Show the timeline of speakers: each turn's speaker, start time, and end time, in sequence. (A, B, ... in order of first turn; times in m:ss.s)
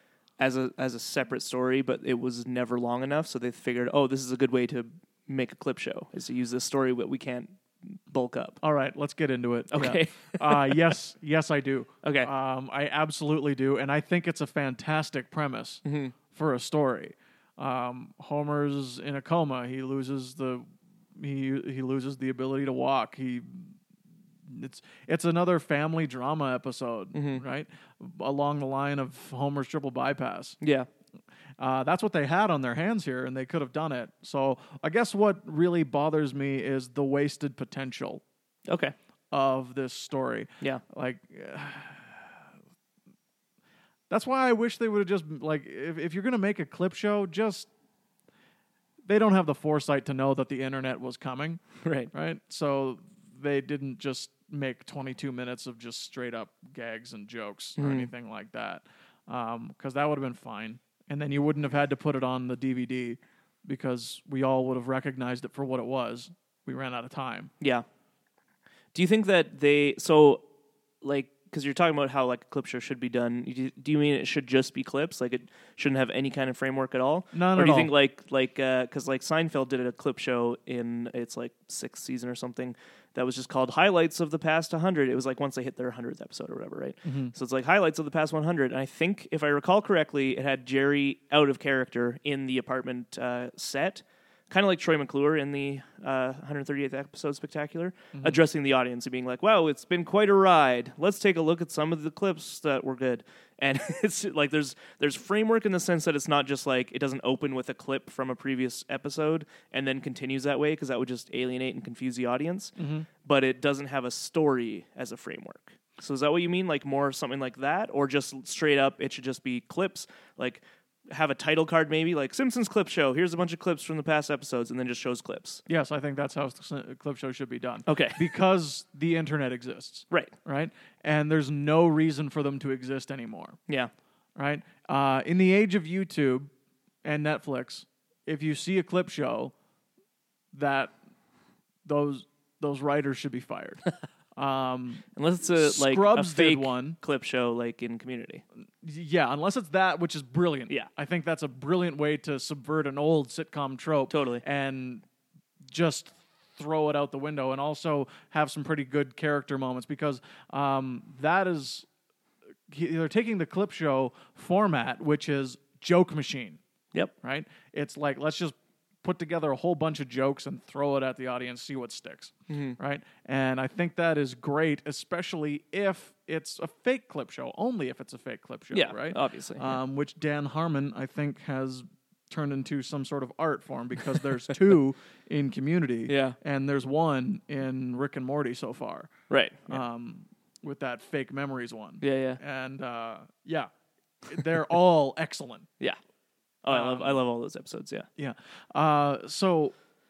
0:00.4-0:08.6 A
0:08.6-0:23.8 B
0:09.7-0:11.0 A
0:12.0-0:12.3 A
0:15.8-0:16.1 A
0:24.5-0:30.6 B
0:27.1-0:27.4 A
0:30.6-0:30.9 A
0:31.6-0:38.2 B
0:38.7-0:38.9 A
0:39.3-0:42.4 B
0:44.1-0:47.7 B
0:49.0-1:07.5 B
0:51.8-0:52.1 A
0:57.8-0:58.1 A
1:07.6-1:07.8 A
1:08.9-1:10.4 A
1:11.0-2:05.6 A
1:17.3-1:17.9 B
1:27.0-1:27.3 B
1:38.1-1:38.4 B
1:52.8-1:53.1 B
2:05.7-2:13.6 B
2:07.8-2:08.3 A
2:14.4-2:16.5 B
2:17.0-2:19.5 B
2:20.5-2:20.9 B
2:21.8-2:23.8 B
2:24.4-2:27.0 B
2:25.2-2:28.4 A
2:28.8-2:35.0 B
2:34.1-2:34.4 A
2:35.7-2:41.9 B
2:42.7-2:46.6 B
2:47.2-3:09.1 B
2:52.5-2:52.8 A
2:58.7-2:59.8 A
3:06.1-3:06.4 A
3:09.3-3:09.8 A
3:09.7-3:13.7 B
3:12.0-3:12.4 A
3:14.3-3:15.7 B
3:16.6-3:18.1 A
3:16.7-3:17.2 B
3:18.2-3:19.7 B